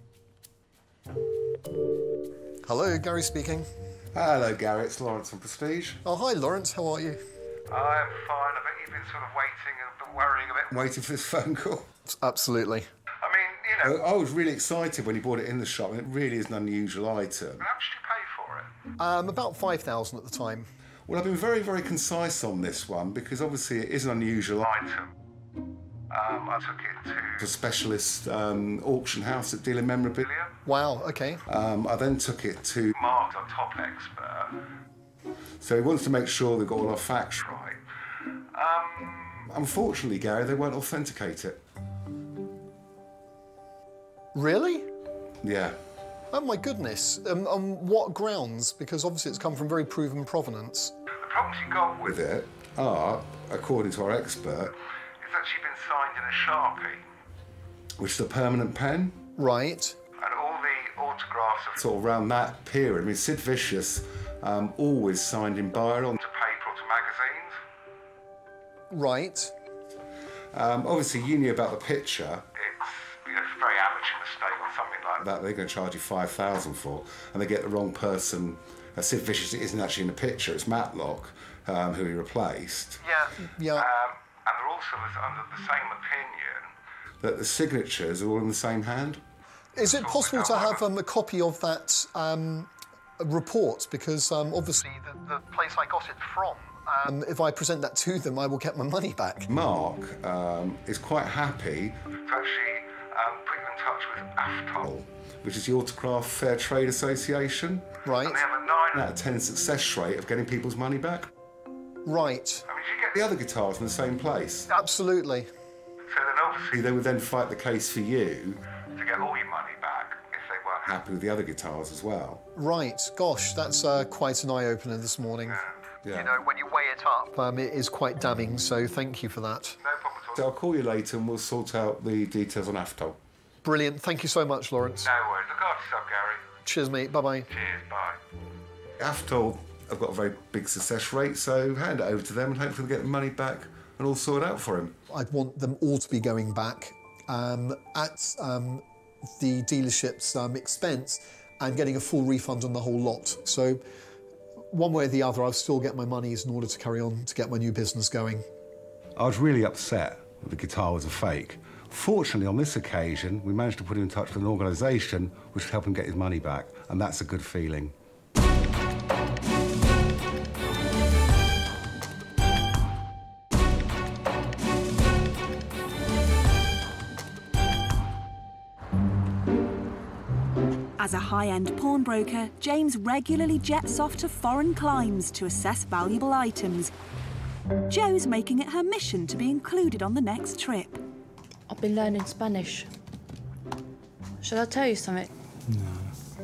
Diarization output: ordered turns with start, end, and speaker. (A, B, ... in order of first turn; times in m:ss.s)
0:02.6-0:03.7 A
0:04.1-0:06.0 B
0:06.0-0:07.2 A
0:07.7-0:11.9 B
0:12.1-0:12.9 A
0:13.2-0:18.7 B
0:19.0-0:20.7 A
0:21.1-0:25.1 B
0:26.1-0:30.5 B
0:30.6-0:31.4 A
0:31.5-0:34.5 B
0:35.6-0:37.8 B
0:38.5-0:41.6 B
0:44.4-0:44.9 A
0:45.4-0:45.8 B
0:46.3-0:50.9 A
0:51.2-0:57.0 B
0:58.0-0:59.2 B
0:59.4-1:00.0 A
1:00.2-1:07.6 B
1:08.9-1:09.5 A
1:10.5-1:23.0 B
1:23.0-1:23.9 A
1:23.7-1:26.7 B
1:27.2-1:29.2 B
1:29.8-1:39.5 A
1:29.8-1:30.8 B
1:39.5-1:51.3 B
1:48.1-1:48.4 A
1:52.1-1:52.6 A
1:52.7-1:54.7 B
1:54.7-1:55.5 A
1:56.1-2:02.4 B
2:02.6-2:09.8 A
2:06.0-2:06.3 B
2:09.8-2:13.2 B
2:13.6-2:15.1 A
2:15.0-2:16.4 B
2:16.6-2:17.5 A
2:17.5-2:18.2 B
2:19.0-2:25.0 B
2:25.1-2:28.8 A
2:29.4-2:33.8 A
2:34.7-2:38.4 A
2:39.2-2:47.9 B
3:01.0-3:06.9 C
3:07.9-3:11.0 C
3:11.7-3:12.9 D
3:14.4-3:15.3 D